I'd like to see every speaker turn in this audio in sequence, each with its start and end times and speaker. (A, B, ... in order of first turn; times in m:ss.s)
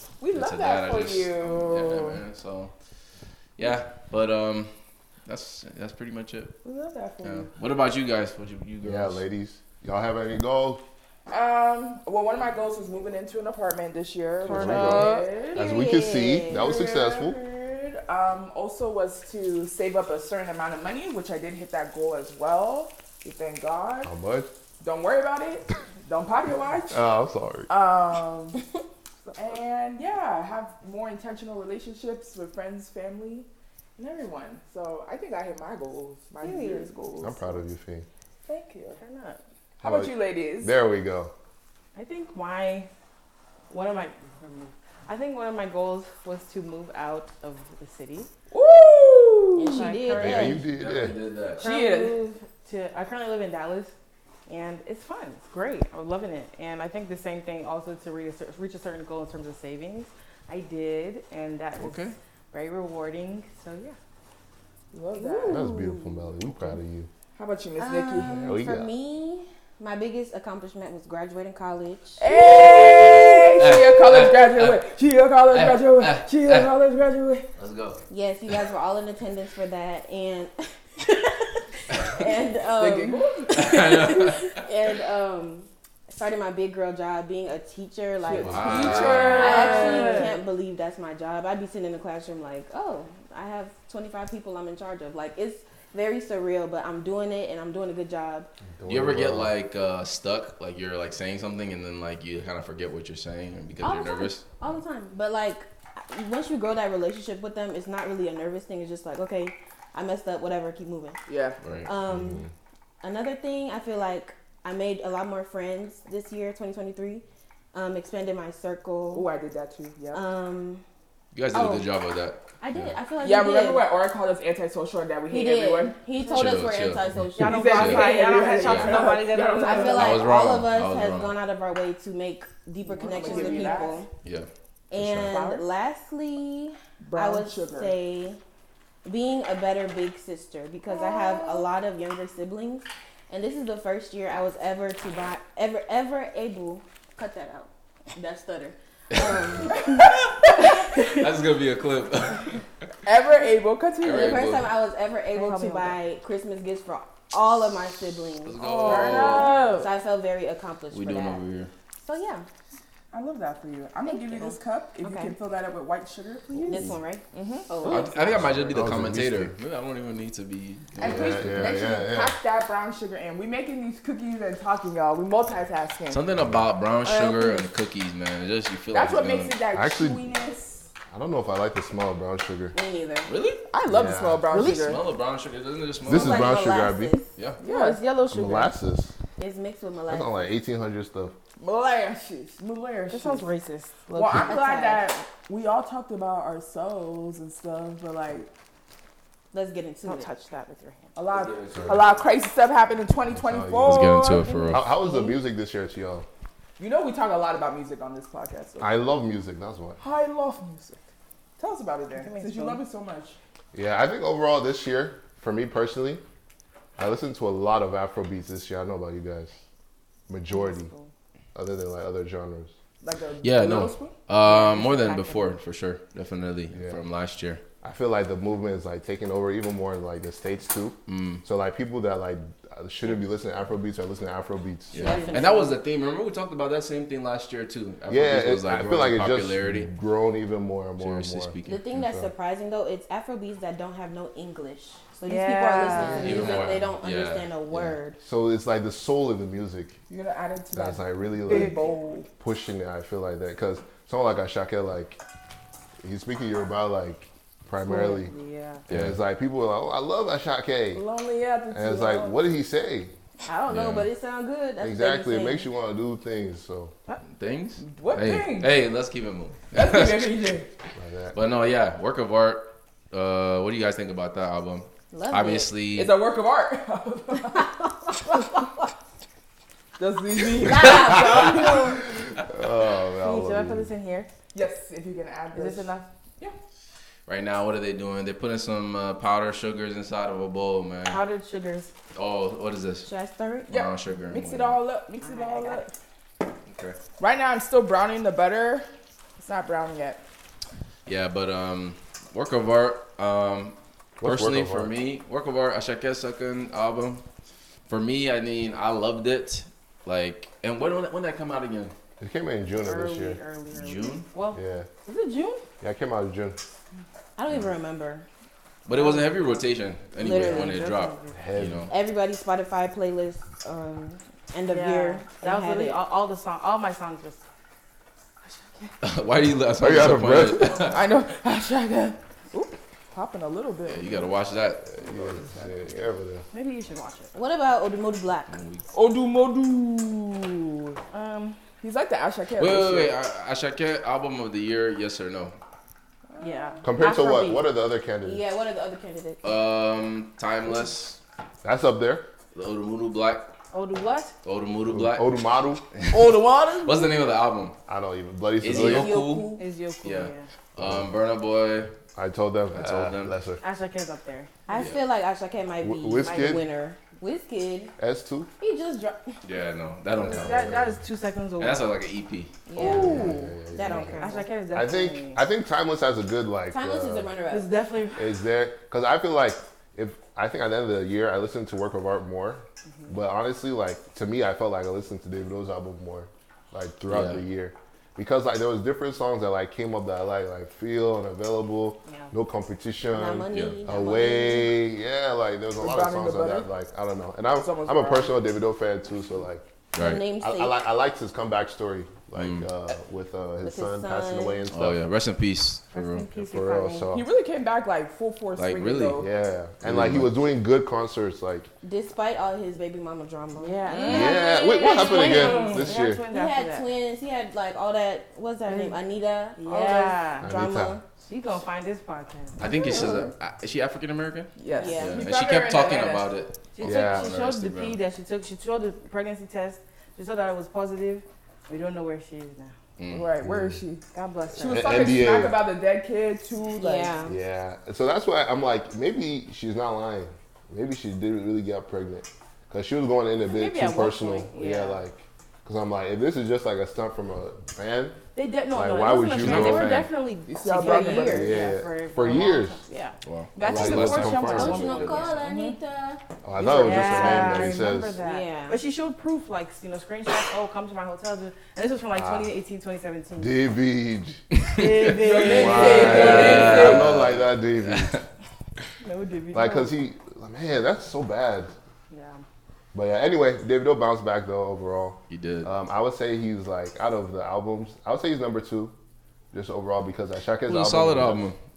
0:00.2-0:02.2 A
0:00.3-0:02.7 B
0:03.6-0:04.7 B
0:05.2-0:06.6 B
0:06.6-0:07.5 A
0:07.2-0:09.2 B
0:08.8-0:10.8 C
0:11.3-0:15.7 A
0:14.4-0:17.4 C
0:14.5-0:15.2 D
0:14.5-0:16.7 E
0:16.5-0:24.1 A
0:24.0-0:24.5 C
0:24.8-0:27.0 A
0:26.9-0:27.7 C
0:27.7-0:28.6 A
0:29.3-0:36.9 A
0:36.4-0:37.6 E
0:37.2-0:38.1 C
0:38.4-0:39.0 A
0:39.0-0:39.4 D
0:39.8-0:40.7 A
0:39.8-0:41.3 C
0:41.9-0:42.9 D
0:43.7-0:48.3 D
0:48.5-0:49.9 A
0:49.5-0:50.6 E
0:49.8-0:50.6 D
0:50.2-0:51.2 C
0:50.7-0:51.6 B
0:51.6-0:53.9 D
0:51.6-0:52.2 A
0:54.5-1:04.0 D
1:01.8-1:02.2 B
1:04.9-1:05.6 A
1:05.1-1:06.3 E
1:05.5-1:07.1 C
1:07.3-1:08.5 A
1:07.8-1:13.1 E
1:08.4-1:08.9 C
1:12.2-1:17.5 A
1:12.8-1:14.8 B
1:15.5-1:16.7 B
1:17.6-1:18.0 B
1:18.1-1:38.5 E
1:22.8-1:23.6 A
1:23.5-1:24.6 B
1:28.2-1:30.4 A
1:28.4-1:29.2 C
1:28.4-1:29.8 B
1:29.2-1:30.4 D
1:38.6-1:39.5 C
1:38.9-1:44.4 B
1:43.8-1:51.2 E
1:51.3-1:51.6 A
1:51.6-1:51.9 B
1:51.8-1:52.4 E
1:52.1-1:52.5 C
1:53.0-1:59.3 E
1:59.1-2:00.2 A
2:00.1-2:00.8 E
2:01.3-2:02.9 B
2:01.5-2:01.9 E
2:02.6-2:03.8 E
2:03.2-2:06.0 A
2:05.3-2:08.0 E
2:06.2-2:06.5 D
2:06.2-2:07.0 B
2:07.4-2:10.1 D
2:07.4-2:10.3 A
2:07.7-2:09.0 B
2:09.6-2:14.1 E
2:09.9-2:11.4 B
2:12.9-2:14.0 A
2:13.1-2:13.8 D
2:14.2-2:14.5 B
2:14.9-2:18.4 E
2:15.0-2:15.4 B
2:15.3-2:15.6 D
2:17.0-2:17.9 A
2:19.0-2:30.0 E
2:21.0-2:21.6 A
2:29.7-2:32.6 B
2:33.0-2:34.6 A
2:34.0-2:34.7 B
2:34.0-2:41.4 E
2:35.3-2:36.0 D
2:38.4-2:39.6 B
2:38.6-2:39.9 A
2:38.8-2:39.4 D
2:40.9-2:41.7 B
2:42.0-2:42.4 E
2:43.1-2:47.9 A
2:44.0-2:45.4 E
2:46.5-2:46.9 D
2:46.6-2:48.6 E
2:47.8-2:48.1 D
2:47.9-2:51.8 B
2:48.4-2:49.5 C
2:51.0-2:56.2 A
2:51.0-2:52.4 C
2:56.1-2:59.6 B
2:56.4-2:56.6 C
2:57.0-2:57.7 E
2:58.9-3:00.8 A
2:59.7-3:00.2 C
3:01.1-3:02.7 C
3:02.7-3:03.3 E
3:03.3-3:03.6 B
3:03.6-3:05.0 A
3:03.8-3:04.5 C
3:04.5-3:05.0 D
3:04.6-3:06.5 B
3:06.0-3:07.2 C
3:06.1-3:07.3 E
3:07.6-3:08.0 A
3:07.6-3:08.8 D
3:08.3-3:09.1 C
3:09.4-3:10.4 E
3:10.1-3:11.3 C
3:11.6-3:13.5 A
3:13.1-3:14.6 D
3:14.1-3:18.5 A
3:14.3-3:15.0 E
3:19.5-3:20.3 E
3:20.0-3:21.1 D
3:21.1-3:24.7 A
3:21.3-3:22.2 B
3:21.7-3:22.0 C
3:23.3-3:24.0 C
3:23.8-3:24.8 B
3:24.7-3:26.3 C
3:24.8-3:25.3 E
3:26.8-3:28.9 A
3:28.8-3:30.0 C
3:30.0-3:31.0 A
3:31.6-3:33.4 A
3:32.1-3:32.8 D
3:33.7-3:36.2 C
3:37.0-3:39.5 C
3:40.3-3:40.9 C
3:40.5-3:41.1 D
3:41.5-3:42.7 C
3:43.0-3:44.1 A
3:43.4-3:47.6 B
3:44.4-3:45.6 D
3:46.7-3:47.0 C
3:47.8-3:55.2 C
3:51.1-3:51.4 B
3:54.9-3:59.9 B
3:54.9-3:55.8 E
3:55.1-3:55.4 D
3:58.1-4:02.3 C
4:01.0-4:01.8 B
4:01.6-4:08.2 E
4:05.2-4:06.5 D
4:06.2-4:06.8 C
4:06.2-4:07.9 B
4:08.2-4:10.0 C
4:10.1-4:12.3 A
4:10.7-4:11.8 C
4:11.5-4:11.8 D
4:12.4-4:15.2 C
4:16.0-4:18.3 C
4:17.8-4:18.8 D
4:18.9-4:21.0 C
4:18.9-4:19.2 B
4:20.9-4:22.4 A
4:21.7-4:23.1 C
4:23.4-4:25.7 E
4:23.7-4:24.1 B
4:24.8-4:26.9 C
4:27.2-4:30.4 B
4:27.8-4:28.7 A
4:29.7-4:30.7 A
4:31.0-4:31.4 C
4:31.3-4:36.1 B
4:35.1-4:35.7 E
4:35.9-4:37.7 A
4:40.0-4:41.8 A
4:40.6-4:42.0 E
4:40.6-4:41.3 B
4:42.4-4:43.9 C
4:43.2-4:44.3 D
4:44.5-4:46.6 A
4:45.5-4:46.1 D
4:47.3-4:51.2 B
4:51.1-4:51.9 D
4:52.1-4:53.1 B
4:53.0-4:53.7 E
4:53.7-4:55.9 A
4:53.7-4:54.8 B
4:55.2-4:55.8 E
4:56.7-4:57.0 B
4:57.2-4:58.9 A
4:59.4-5:00.2 A
5:01.0-5:07.2 B
5:04.2-5:04.9 C
5:07.9-5:11.9 B
5:12.2-5:13.4 C
5:12.7-5:15.6 D
5:13.7-5:14.3 B
5:14.5-5:14.9 C
5:15.8-5:16.6 C
5:17.4-5:18.2 E
5:18.8-5:21.9 B
5:18.9-5:19.6 D
5:20.2-5:21.4 D
5:20.2-5:20.8 E
5:21.3-5:21.9 C
5:21.9-5:26.0 E
5:24.6-5:27.4 D
5:28.4-5:28.9 D
5:29.0-5:31.0 B
5:29.8-5:30.8 C
5:30.8-5:34.3 A
5:33.8-5:34.8 B
5:34.8-5:36.4 C
5:35.0-5:36.0 A
5:36.5-5:37.3 D
5:37.3-5:38.6 E
5:38.5-5:38.8 B
5:38.9-5:41.0 A
5:41.1-5:41.6 D
5:41.8-5:43.2 A
5:42.6-5:45.6 B
5:46.3-5:46.8 A
5:46.4-5:47.6 D
5:46.8-5:48.4 C
5:48.2-5:49.5 E
5:49.4-5:51.2 B
5:51.6-5:52.2 C
5:52.5-5:53.5 B
5:53.7-5:54.3 D
5:54.4-5:55.4 B
5:54.9-5:55.8 C
5:55.9-5:57.8 B
5:56.1-5:57.2 A
5:57.9-5:59.1 C
5:58.6-6:01.9 B
5:58.7-5:59.6 E
5:59.6-6:00.5 D
6:00.8-6:01.1 C
6:02.2-6:03.6 C
6:02.7-6:03.3 B
6:03.6-6:04.5 D
6:04.7-6:07.9 E
6:04.7-6:05.0 B
6:05.8-6:06.6 C
6:08.0-6:08.5 C
6:08.6-6:09.4 E
6:09.4-6:10.8 B
6:10.2-6:11.9 D
6:10.3-6:10.9 C
6:11.6-6:12.6 B
6:12.7-6:14.5 E
6:12.8-6:17.3 C
6:12.8-6:13.2 D
6:12.8-6:13.4 A
6:13.8-6:15.4 D
6:16.7-6:17.7 E
6:17.5-6:18.2 D
6:18.2-6:39.7 C
6:27.1-6:27.4 B
6:32.0-6:32.3 D
6:33.1-6:34.8 E
6:35.8-6:36.7 A
6:37.6-6:38.3 A
6:39.9-6:40.2 B
6:39.9-6:40.8 E
6:40.4-6:45.0 C
6:42.3-6:42.6 B
6:43.6-6:44.6 E
6:44.7-6:46.3 B
6:45.9-6:47.1 D
6:46.4-6:47.3 C
6:47.1-6:49.3 A
6:48.6-6:49.2 B
6:49.2-6:51.7 C
6:49.8-6:50.3 B
6:51.8-7:01.0 E
6:53.6-6:56.9 D
6:53.9-6:54.4 A
6:54.1-6:56.2 C
6:55.2-6:55.9 A
6:58.6-6:59.0 D
6:59.6-7:00.5 D
7:00.4-7:01.0 C
7:01.2-7:03.0 D
7:02.6-7:08.0 B
7:02.6-7:03.3 A
7:04.5-7:06.3 A
7:04.7-7:05.2 E
7:06.7-7:12.7 D
7:06.8-7:07.4 C
7:13.0-7:13.3 B
7:13.1-7:14.0 A
7:13.4-7:13.8 C
7:14.1-7:15.1 D
7:14.6-7:15.6 C
7:14.6-7:17.1 A
7:16.8-7:17.4 E
7:17.2-7:28.2 C
7:23.5-7:25.0 D
7:28.3-7:35.4 D
7:28.7-7:30.1 C
7:29.4-7:30.0 B
7:30.4-7:31.5 A
7:30.6-7:31.6 E
7:31.2-7:32.8 C
7:33.2-7:35.3 B
7:33.6-7:34.9 C
7:34.4-7:38.8 E
7:35.4-7:35.7 A
7:36.4-7:38.2 C
7:36.6-7:43.6 D
7:42.1-7:42.5 C
7:43.4-7:44.4 C
7:44.5-7:48.2 B
7:44.7-7:46.8 D
7:45.1-7:47.1 A
7:45.5-7:48.2 C
7:49.0-7:49.9 D
7:49.5-7:51.7 C
7:52.1-7:52.4 D
7:52.9-7:58.9 C
7:55.3-7:55.7 B
7:59.5-8:01.5 C
8:00.7-8:01.6 B